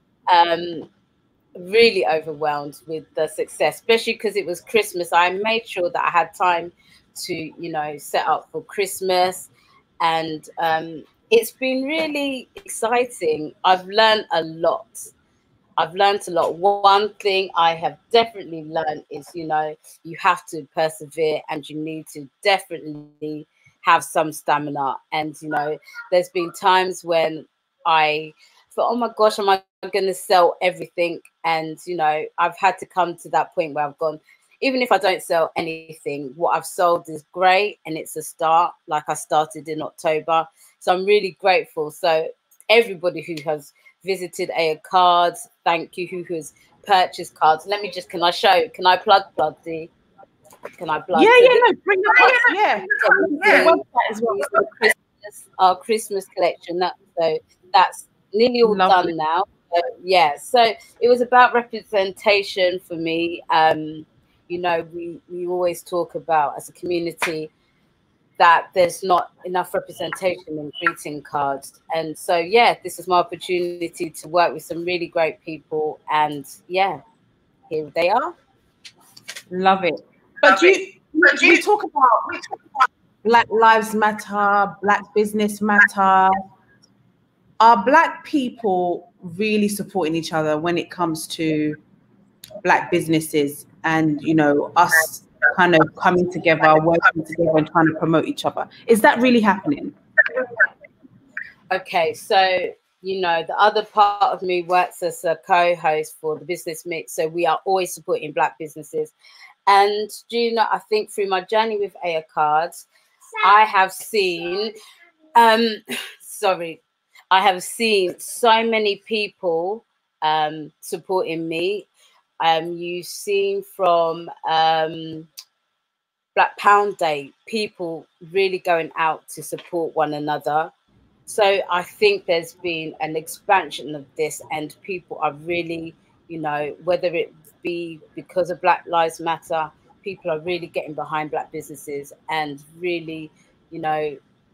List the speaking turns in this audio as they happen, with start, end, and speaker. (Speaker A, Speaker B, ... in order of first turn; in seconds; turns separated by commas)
Speaker A: 0.3-0.9, Speaker A: 1.6-9.5, Speaker A: 10.0-15.1, Speaker A: 15.8-49.9, Speaker A: 50.7-51.6, Speaker B: 51.1-54.5, Speaker A: 52.2-67.5, Speaker B: 58.6-59.1, Speaker A: 68.4-77.0, Speaker A: 77.7-78.3, Speaker B: 79.5-82.5, Speaker B: 83.2-86.4, Speaker B: 87.6-91.8, Speaker B: 92.6-99.9, Speaker A: 101.7-109.1, Speaker A: 109.7-112.8, Speaker A: 113.4-114.7, Speaker A: 115.4-121.9, Speaker A: 122.4-125.3, Speaker A: 126.3-130.7, Speaker A: 131.3-144.2